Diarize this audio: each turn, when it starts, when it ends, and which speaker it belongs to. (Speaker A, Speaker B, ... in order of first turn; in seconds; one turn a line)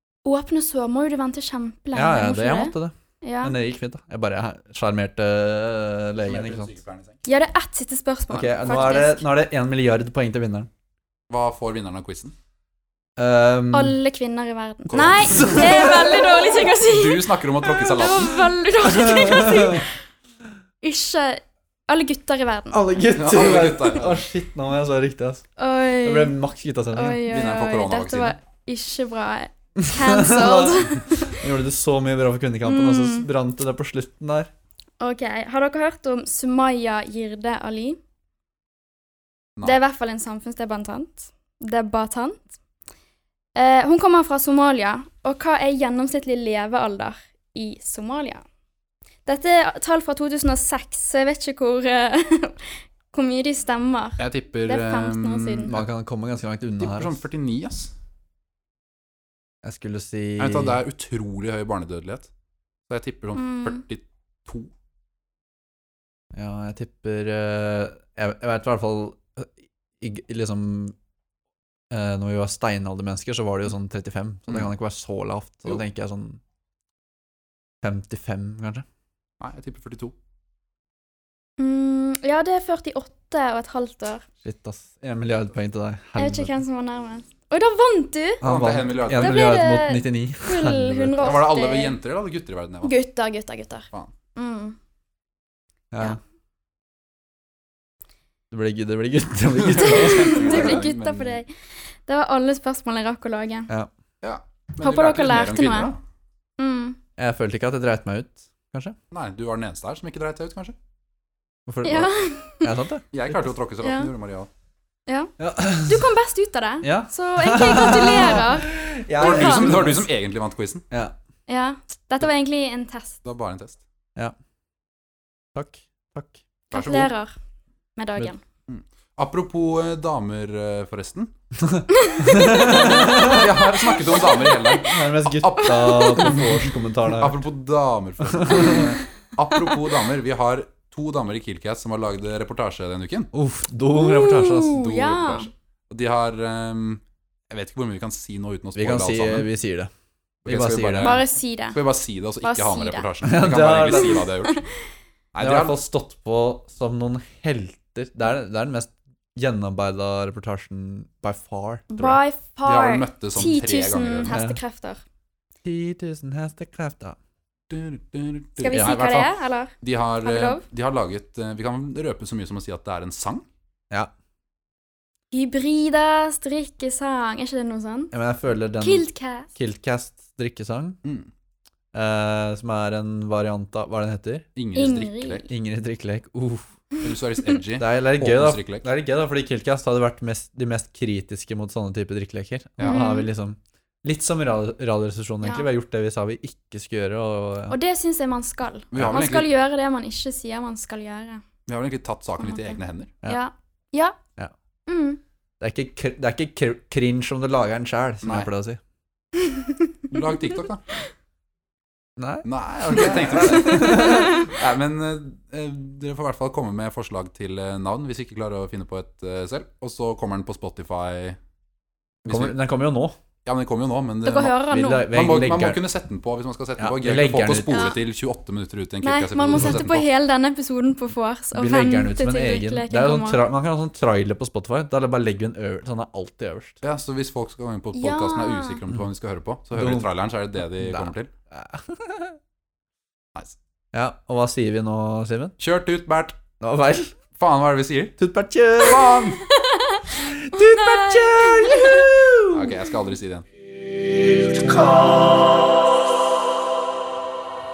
Speaker A: 0.2-3.5
Speaker B: 1.9-6.8
Speaker C: 6.2-7.2
Speaker A: 7.2-9.2
Speaker B: 8.3-10.7
Speaker C: 11.3-12.3
Speaker B: 13.2-14.0
Speaker A: 13.7-19.9
Speaker C: 14.9-16.2
Speaker B: 15.0-16.3
Speaker C: 16.7-18.5
Speaker B: 18.8-19.8
Speaker A: 20.8-22.8
Speaker B: 22.7-25.5
Speaker C: 23.1-24.2
Speaker A: 25.6-26.4
Speaker B: 26.0-27.2
Speaker A: 26.9-31.4
Speaker C: 27.3-28.3
Speaker B: 29.8-34.5
Speaker A: 32.6-33.2
Speaker A: 35.0-38.0
Speaker A: 39.6-42.5
Speaker A: 43.5-48.4
Speaker A: 49.2-55.7
Speaker C: 54.2-55.9
Speaker B: 55.7-57.2
Speaker C: 56.8-57.9
Speaker B: 59.6-60.8
Speaker C: 60.4-62.3
Speaker C: 62.9-64.7
Speaker A: 63.4-63.8
Speaker B: 66.3-71.0
Speaker B: 71.9-76.4
Speaker B: 77.8-78.8
Speaker C: 79.4-80.1
Speaker A: 81.6-84.2
Speaker B: 84.4-86.5
Speaker A: 86.2-88.4
Speaker B: 88.4-91.3
Speaker C: 88.4-89.5
Speaker A: 89.0-92.0
Speaker C: 91.2-92.9
Speaker A: 92.8-94.8
Speaker B: 95.9-96.2
Speaker B: 98.5-100.8
Speaker C: 99.7-101.4
Speaker A: 99.7-101.5
Speaker A: 102.0-103.7
Speaker C: 104.2-106.0
Speaker A: 104.8-105.9
Speaker A: 106.6-107.0
Speaker B: 107.2-109.0
Speaker C: 109.1-110.8
Speaker B: 111.7-113.5
Speaker A: 111.8-112.7
Speaker C: 113.1-114.5
Speaker A: 113.8-114.1
Speaker A: 115.1-119.9
Speaker B: 115.4-116.1
Speaker B: 116.8-120.1
Speaker C: 119.2-120.8
Speaker A: 121.5-123.2
Speaker C: 123.2-123.8
Speaker B: 125.5-126.4
Speaker C: 126.7-127.1
Speaker A: 126.7-127.3
Speaker A: 128.0-128.4
Speaker C: 128.7-131.3
Speaker B: 131.6-133.7
Speaker A: 132.0-133.4
Speaker C: 132.7-136.5
Speaker A: 134.1-134.7
Speaker B: 134.7-137.4
Speaker A: 135.6-136.4
Speaker C: 137.1-143.3
Speaker B: 138.2-139.0
Speaker B: 143.3-144.8
Speaker A: 143.9-145.5
Speaker C: 144.7-149.5
Speaker B: 148.8-149.9
Speaker C: 150.4-154.6
Speaker B: 150.4-151.2
Speaker A: 151.0-151.8
Speaker A: 152.4-153.1
Speaker B: 153.2-154.2
Speaker A: 153.9-154.6
Speaker C: 155.3-155.8
Speaker B: 155.4-162.2
Speaker A: 161.9-165.0
Speaker C: 162.6-164.3
Speaker B: 164.3-164.6
Speaker B: 165.6-167.2
Speaker C: 167.7-173.4
Speaker A: 168.6-170.6
Speaker B: 168.7-169.2
Speaker A: 175.3-178.1
Speaker B: 178.1-181.0
Speaker A: 178.8-179.5
Speaker C: 181.0-181.3
Speaker B: 181.9-184.4
Speaker C: 184.6-185.4
Speaker A: 184.7-185.5
Speaker B: 185.5-186.7
Speaker C: 187.0-188.9
Speaker B: 187.8-197.8
Speaker C: 192.8-193.1
Speaker A: 192.8-193.3
Speaker A: 197.7-201.4
Speaker C: 198.9-199.5
Speaker C: 201.7-203.1
Speaker A: 202.4-204.2
Speaker A: 204.9-205.2
Speaker B: 205.6-208.8
Speaker C: 208.2-208.5
Speaker C: 210.1-210.8
Speaker B: 212.2-214.5
Speaker C: 212.4-221.4
Speaker A: 213.4-214.5
Speaker B: 222.2-223.2
Speaker C: 222.2-222.6
Speaker C: 223.4-230.1
Speaker A: 224.2-225.1
Speaker B: 224.6-225.8
Speaker B: 226.8-227.9
Speaker A: 227.7-228.0
Speaker A: 229.0-233.4
Speaker B: 231.5-236.8
Speaker C: 236.8-241.3
Speaker A: 237.9-238.8
Speaker B: 239.7-240.1
Speaker B: 240.7-242.4
Speaker B: 243.9-245.5
Speaker C: 245.6-246.4
Speaker B: 246.6-247.1
Speaker C: 247.4-248.2
Speaker B: 248.2-249.2
Speaker C: 248.8-249.4
Speaker A: 249.5-250.1
Speaker B: 250.2-252.8
Speaker A: 250.6-252.1
Speaker C: 252.5-253.4